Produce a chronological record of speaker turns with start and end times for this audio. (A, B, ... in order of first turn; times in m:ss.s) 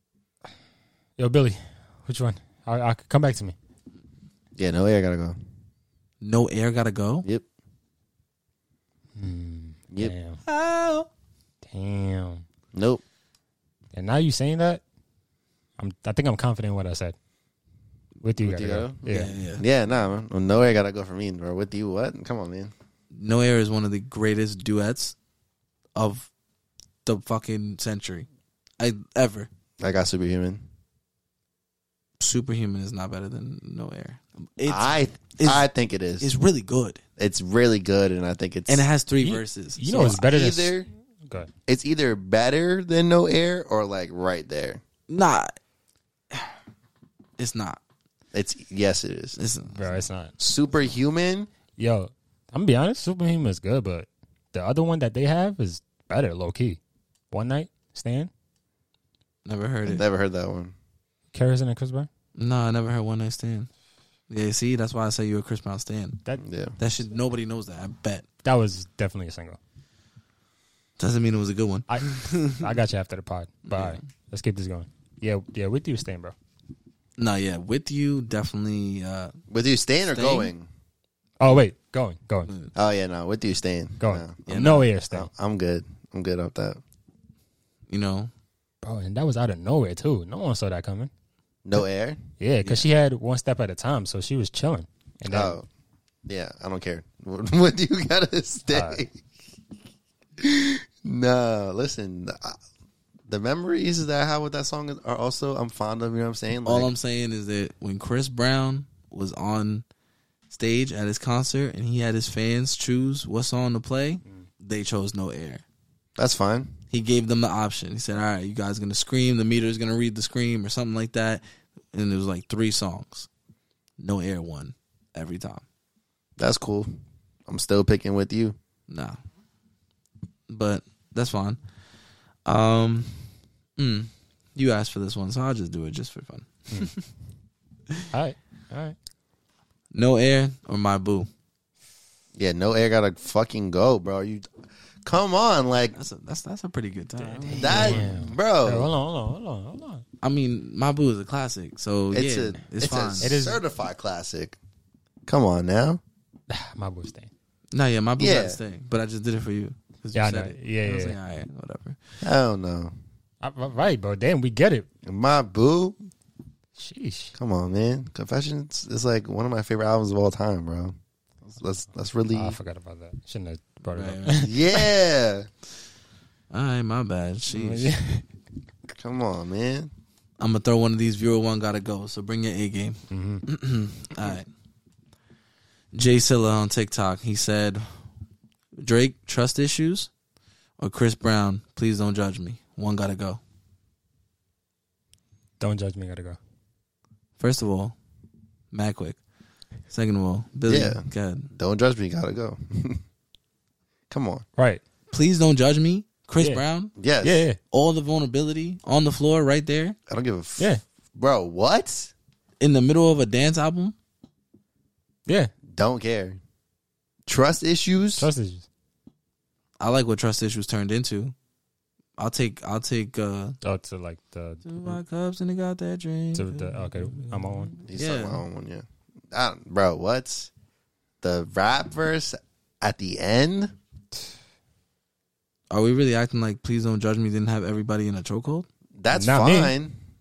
0:01.2-0:03.6 A
0:04.6-0:05.4 B
0:06.2-0:07.3 C
0:09.2-0:10.4 A
0:10.5-0:11.1 C
0:11.6-0:12.4 A
0:12.7-0:13.0 B
0:13.9-0:14.8 A
0:15.8-0:17.2 A
0:18.2-0:19.3 A
0:18.4-0:22.7 B
0:19.1-0:19.6 C
0:23.1-0:25.2 C
0:26.0-0:26.3 C
0:27.0-0:28.3 C
0:28.8-0:29.5 C
0:29.8-0:30.6 B
0:32.2-0:35.7 C
0:34.7-0:36.3 B
0:36.2-0:37.0 C
0:37.2-0:38.9 B
0:38.7-0:40.2 C
0:39.2-0:41.5 A
0:39.9-0:40.9 B
0:41.7-0:44.8 B
0:45.1-0:45.6 C
0:47.4-0:47.8 C
0:48.3-0:49.4 B
0:49.4-0:49.8 C
0:49.7-0:50.3 A
0:50.4-0:51.5 B
0:51.8-0:56.8 A
0:57.3-0:58.3 A
0:59.4-1:00.0 C
0:59.9-1:00.8 B
1:01.3-1:02.1 A
1:02.4-1:03.7 C
1:04.3-1:06.2 C
1:06.4-1:06.8 B
1:06.8-1:08.3 C
1:08.4-1:09.6 A
1:11.0-1:12.7 C
1:11.9-1:16.4 A
1:13.7-1:14.0 C
1:17.2-1:19.3 C
1:19.5-1:20.7 B
1:20.1-1:20.5 C
1:21.4-1:22.5 A
1:22.5-1:22.7 C
1:22.8-1:24.5 B
1:24.0-1:25.3 A
1:24.5-1:24.9 C
1:25.1-1:26.8 B
1:27.9-1:28.3 C
1:28.8-1:31.1 A
1:31.6-1:32.2 B
1:32.4-1:35.6 A
1:35.3-1:35.6 B
1:36.3-1:39.2 B
1:38.7-1:39.0 A
1:40.4-1:42.6 B
1:43.3-1:46.9 B
1:46.6-1:49.8 C
1:50.5-1:55.6 C
1:56.2-1:56.8 B
1:56.9-2:03.3 C
2:04.0-2:05.6 C
2:06.4-2:06.9 B
2:07.5-2:08.6 B
2:08.9-2:09.2 C
2:10.5-2:11.6 C
2:12.5-2:17.1 C
2:18.1-2:19.0 A
2:19.9-2:21.3 C
2:22.4-2:24.5 B
2:25.0-2:26.0 B
2:26.0-2:28.1 C
2:27.2-2:30.0 A
2:27.5-2:28.9 B
2:30.2-2:33.4 C
2:32.1-2:34.6 B
2:33.2-2:33.6 A
2:35.3-2:36.0 B
2:36.5-2:37.3 A
2:37.7-2:42.0 C
2:38.2-2:38.6 B
2:40.2-2:41.2 A
2:42.2-2:42.9 B
2:43.4-2:44.9 A
2:45.0-2:46.0 B
2:46.8-2:47.4 A
2:47.4-2:51.0 B
2:51.5-2:52.6 B
2:52.3-2:54.8 A
2:53.9-2:54.5 C
2:54.4-2:55.5 B
2:56.5-2:57.9 C
2:57.5-2:58.3 A
2:59.0-2:59.9 B
3:00.4-3:04.5 C
3:03.1-3:03.4 A
3:05.9-3:08.0 C
3:08.8-3:10.1 C
3:10.8-3:13.4 C
3:15.6-3:16.4 A
3:17.4-3:18.0 C
3:18.7-3:19.2 C
3:19.9-3:21.5 C
3:20.7-3:23.0 B
3:24.1-3:24.4 B
3:24.6-3:24.8 A
3:25.1-3:26.9 C
3:27.0-3:27.5 B
3:27.2-3:27.6 A
3:27.7-3:30.0 C
3:30.1-3:32.1 B
3:32.6-3:34.0 C
3:35.3-3:35.5 A
3:35.7-3:36.4 B
3:37.3-3:38.3 B
3:38.2-3:38.7 A
3:39.8-3:41.3 C
3:42.2-3:43.6 C
3:43.6-3:45.0 A
3:44.6-3:48.4 C
3:46.4-3:47.8 A
3:47.9-3:50.5 B
3:51.2-3:53.7 B
3:55.7-3:58.7 C
3:59.0-4:00.0 B
3:59.1-3:59.7 A